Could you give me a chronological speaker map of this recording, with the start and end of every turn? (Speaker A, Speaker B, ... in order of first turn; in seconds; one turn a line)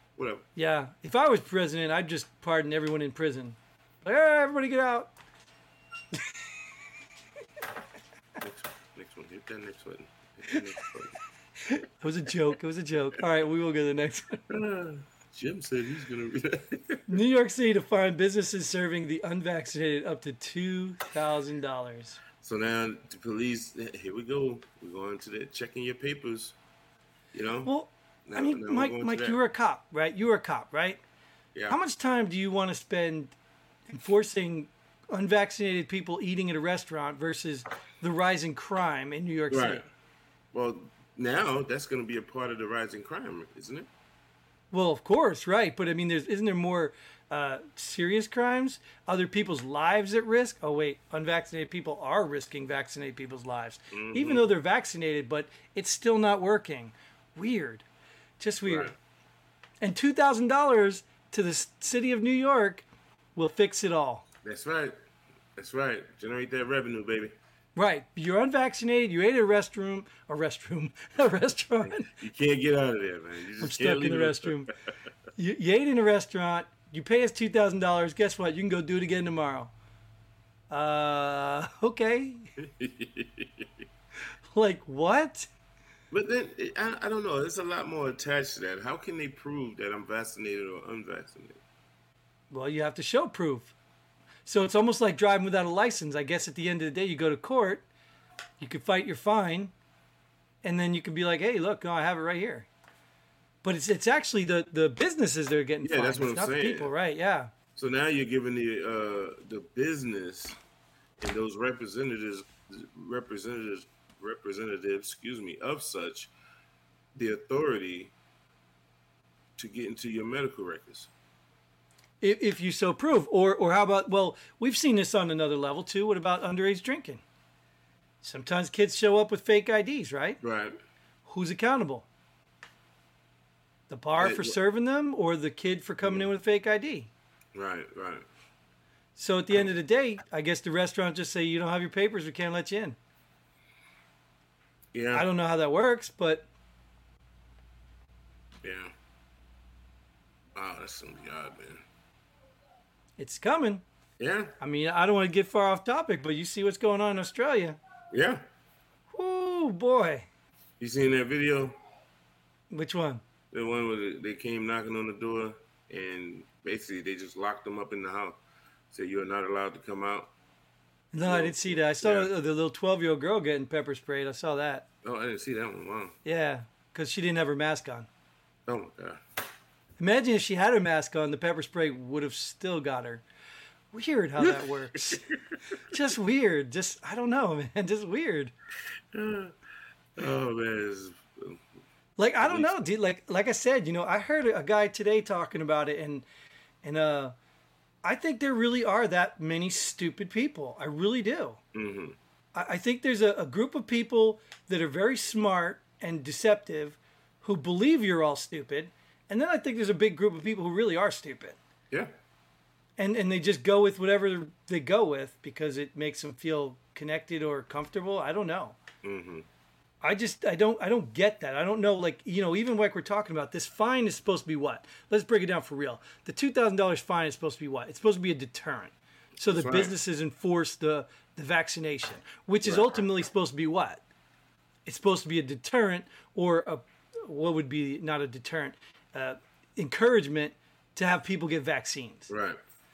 Speaker A: 0.1-0.5
Speaker B: 0.6-5.1
Speaker B: 6.1-6.4
Speaker A: 8.4-11.2
Speaker B: 11.7-14.4
Speaker A: 14.5-17.2
Speaker B: 17.1-22.2
Speaker A: 22.4-26.6
Speaker A: 27.3-27.7
Speaker B: 27.6-31.0
Speaker A: 28.3-29.4
Speaker B: 31.7-33.3
Speaker B: 33.9-39.9
Speaker A: 39.5-39.8
Speaker A: 40.5-43.9
Speaker B: 44.7-57.9
Speaker A: 53.9-54.5
Speaker B: 58.4-58.9
Speaker A: 58.6-58.9
Speaker B: 59.8-62.8
Speaker B: 63.4-64.2
Speaker A: 64.4-64.9
Speaker A: 65.5-67.3
Speaker B: 67.8-72.1
Speaker A: 71.8-74.6
Speaker B: 73.6-74.7
Speaker B: 75.3-79.7
Speaker B: 80.7-82.5
Speaker A: 82.6-83.8
Speaker B: 84.5-85.5
Speaker A: 86.1-91.6
Speaker B: 92.5-93.7
Speaker B: 94.4-97.8
Speaker B: 98.6-99.7
Speaker B: 100.6-102.7
Speaker B: 103.6-107.5
Speaker A: 105.8-106.9
Speaker A: 107.8-110.6
Speaker A: 111.2-116.3
Speaker A: 117.1-118.1
Speaker A: 119.6-121.1
Speaker B: 122.2-127.2
Speaker B: 128.2-130.4
Speaker A: 130.4-130.8
Speaker B: 131.2-132.1
Speaker B: 133.9-137.1
Speaker A: 134.2-134.6
Speaker A: 136.0-136.3
Speaker A: 137.5-138.2
Speaker B: 139.2-143.0
Speaker A: 144.9-145.3
Speaker B: 145.1-146.4
Speaker A: 148.6-148.9
Speaker A: 150.5-151.8
Speaker B: 153.2-153.8
Speaker A: 154.2-154.6
Speaker B: 154.6-157.8
Speaker A: 158.1-158.4
Speaker B: 159.1-160.3
Speaker A: 160.8-161.8
Speaker B: 162.7-163.2
Speaker A: 163.5-168.4
Speaker A: 168.9-170.3
Speaker B: 171.1-174.8
Speaker A: 171.2-172.3
Speaker A: 175.0-176.1
Speaker B: 176.2-178.1
Speaker A: 178.7-179.2
Speaker B: 180.0-183.2
Speaker B: 183.9-188.5
Speaker A: 184.4-185.6
Speaker A: 189.1-189.5
Speaker A: 190.2-191.6
Speaker B: 192.2-196.2
Speaker A: 192.4-192.9
Speaker B: 196.8-197.3
Speaker B: 198.0-201.6
Speaker A: 201.7-202.2
Speaker B: 202.5-211.6
Speaker B: 213.0-218.8
Speaker A: 219.0-219.5
Speaker B: 220.0-234.0
Speaker A: 229.4-229.9
Speaker A: 232.6-233.0
Speaker B: 234.8-242.3
Speaker A: 242.3-242.6